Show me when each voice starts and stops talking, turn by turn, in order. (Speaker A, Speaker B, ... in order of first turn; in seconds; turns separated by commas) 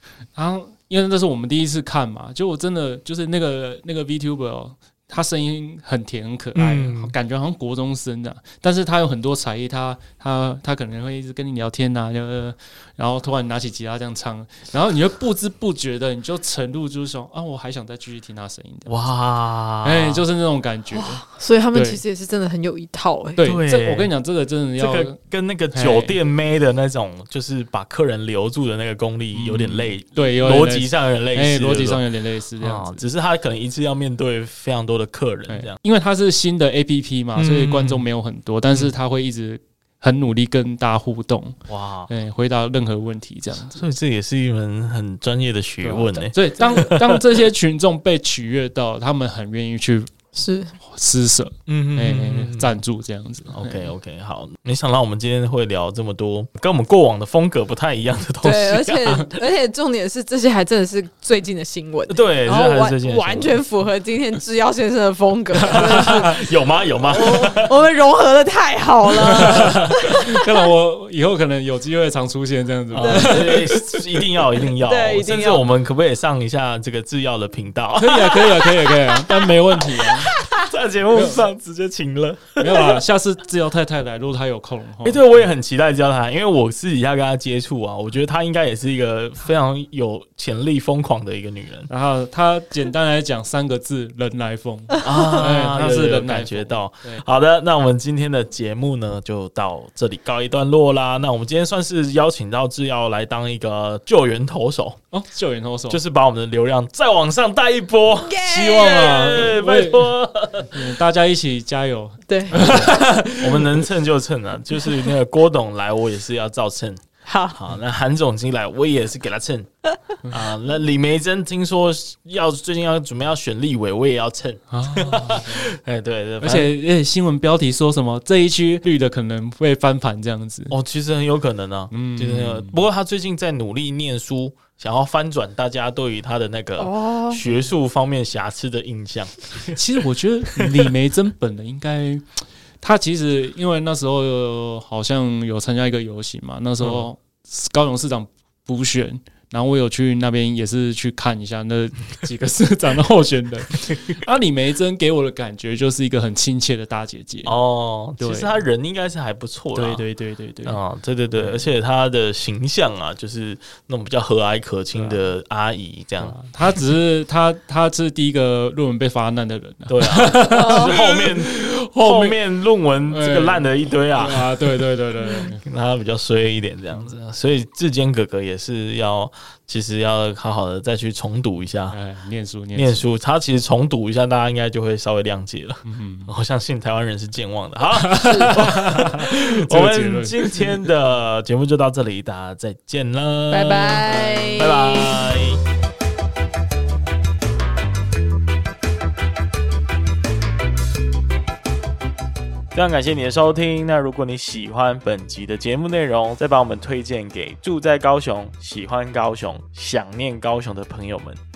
Speaker A: 0.3-19.0, Speaker B: 6.5-7.2, Speaker B: 18.9-20.2, Speaker A: 19.8-22.0, Speaker C: 20.9-23.4, Speaker A: 23.4-25.2, Speaker B: 23.4-24.1, Speaker B: 24.8-32.0, Speaker A: 25.7-26.2, Speaker A: 29.3-33.0, Speaker B: 32.6-35.8, Speaker A: 35.5-41.6, Speaker B: 37.4-38.1, Speaker B: 41.7-42.1, Speaker A: 42.1-43.8, Speaker B: 43.7-47.2, Speaker A: 45.8-50.1, Speaker C: 50.4-50.8, Speaker A: 50.8-53.9, Speaker B: 51.7-52.7, Speaker B: 53.5-59.4, Speaker C: 58.4-66.4, Speaker B: 62.1-63.6, Speaker B: 65.6-67.7, Speaker A: 65.7-66.4, Speaker C: 67.1-70.5, Speaker A: 69.2-73.8, Speaker B: 72.9-83.0, Speaker C: 73.0-73.7, Speaker C: 74.8-75.7, Speaker A: 78.0-80.3, Speaker A: 81.1-81.5, Speaker A: 82.6-85.2, Speaker B: 85.0-91.9, Speaker A: 91.9-97.2, Speaker B: 95.0-105.0, Speaker A: 105.1-106.0, Speaker B: 105.9-110.8, Speaker C: 108.2-109.5, Speaker A: 108.4-113.8, Speaker C: 112.3-112.7, Speaker B: 112.5-117.0, Speaker C: 117.3-117.6, Speaker B: 117.5-119.7, Speaker B: 120.2-126.7, Speaker A: 124.7-125.7, Speaker A: 126.4-130.8, Speaker B: 130.7-139.8, Speaker A: 131.9-132.8, Speaker C: 136.8-137.4, Speaker A: 139.7-157.5, Speaker B: 140.6-140.8, Speaker B: 146.8-147.1, Speaker B: 157.4-160.0, Speaker A: 158.2-158.6, Speaker A: 159.7-160.8, Speaker B: 160.6-166.4, Speaker A: 161.4-161.7, Speaker A: 164.9-165.2, Speaker A: 166.2-172.4, Speaker B: 169.9-174.8, Speaker C: 170.6-171.0, Speaker A: 173.1-175.6, Speaker C: 175.2-175.5, Speaker B: 175.6-182.0, Speaker A: 181.9-183.1, Speaker B: 182.8-195.6, Speaker A: 185.8-186.3, Speaker A: 187.9-190.9, Speaker C: 193.5-195.3, Speaker B: 202.7-211.4